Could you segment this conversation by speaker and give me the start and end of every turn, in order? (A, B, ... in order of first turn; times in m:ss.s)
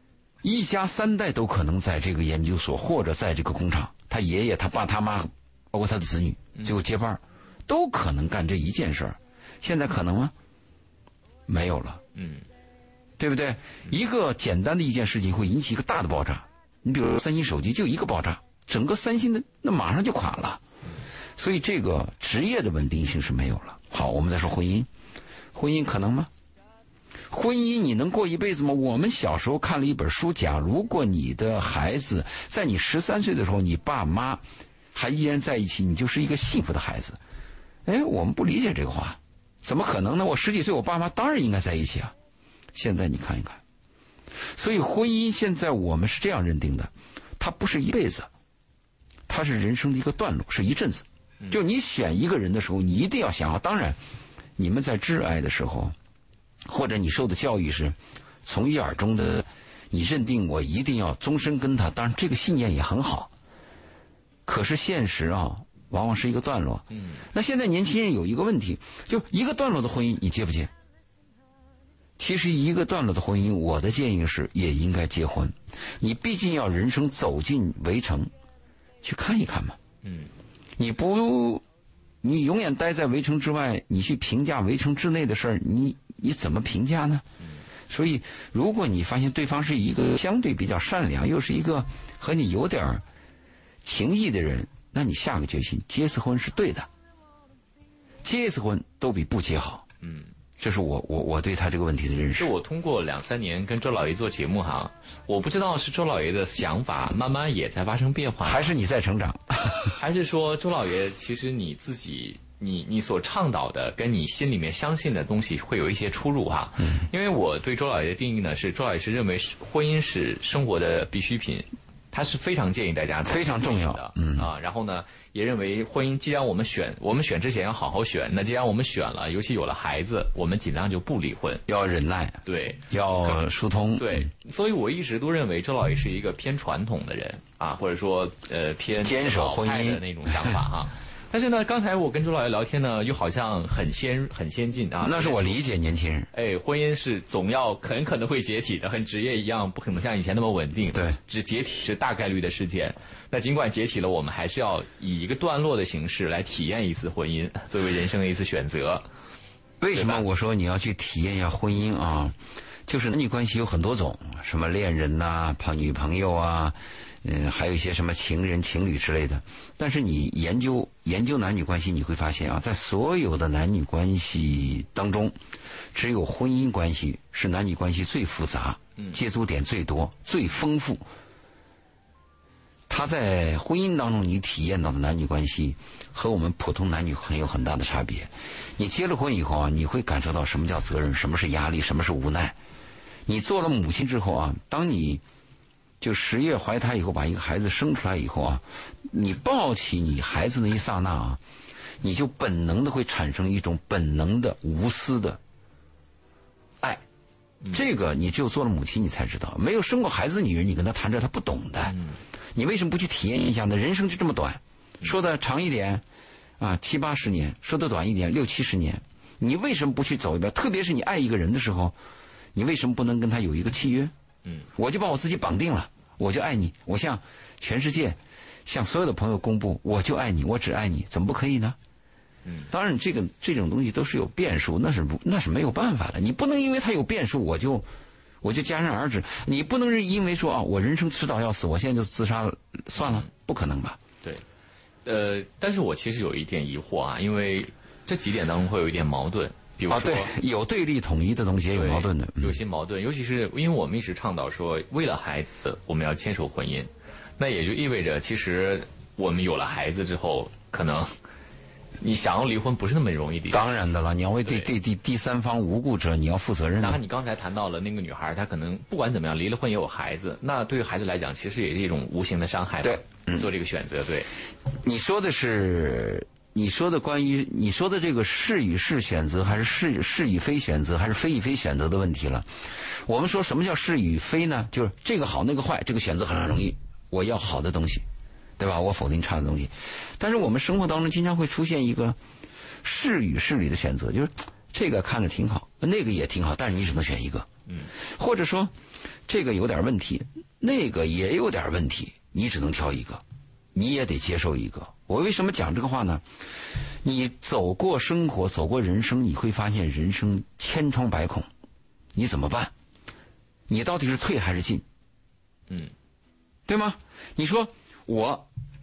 0:00.4-0:10.3 A
0:11.5-0:12.0 A
0:12.1-0:12.4 B
0:13.2-0:20.6 A
0:21.4-0:24.9 A
0:25.5-0:26.3 A
0:27.3-0:34.4 A
0:34.9-0:37.2 A
0:37.8-0:42.1 A
0:42.7-0:43.6 A
0:44.6-0:48.3 A
0:49.3-0:54.0 A
0:54.6-0:55.9 A
0:56.6-1:03.3 A
1:04.4-1:10.7 A
1:06.9-1:07.2 B
1:12.2-1:18.3 A
1:19.0-1:19.8 A
1:20.0-1:20.3 B
1:20.8-1:21.6 A
1:22.2-1:27.2 A
1:27.9-1:33.0 A
1:33.8-1:36.9 A
1:38.2-1:39.8 A
1:40.0-1:40.3 B
1:40.6-1:42.5 A
1:42.4-1:48.7 B
1:48.4-1:49.9 A
1:49.8-2:11.6 B
2:03.2-2:04.5 A
2:11.7-2:14.3 A
2:12.4-2:13.4 B
2:14.0-2:25.6 B
2:19.0-2:20.6 A
2:25.0-2:26.3 A
2:26.3-2:39.0 B
2:39.8-2:42.4 A
2:39.9-2:40.2 B
2:42.9-2:55.4 A
2:55.9-3:01.0 A
3:02.9-3:12.6 A
3:13.3-3:15.2 A
3:16.0-3:21.4 A
3:22.0-3:25.4 A
3:27.7-3:32.0 A
3:31.8-3:32.2 B
3:32.5-3:36.0 A
3:36.6-3:42.0 A
3:42.5-3:44.1 A
3:44.7-3:51.8 A
3:52.4-3:52.7 B
3:52.7-3:57.8 A
3:58.4-4:04.0 A
4:03.0-4:03.3 B
4:05.0-4:10.3 B
4:09.9-4:12.6 A
4:11.7-4:21.1 B
4:22.0-4:23.9 B
4:23.5-4:27.0 A
4:26.8-4:34.3 B
4:32.8-4:33.5 A
4:34.8-4:48.0 A
4:48.6-4:52.2 A
4:52.8-4:58.7 A
4:59.3-5:03.2 A
5:03.7-5:06.2 A
5:07.0-5:11.5 A
5:12.1-5:12.7 A
5:13.7-5:14.8 A
5:16.7-5:18.5 A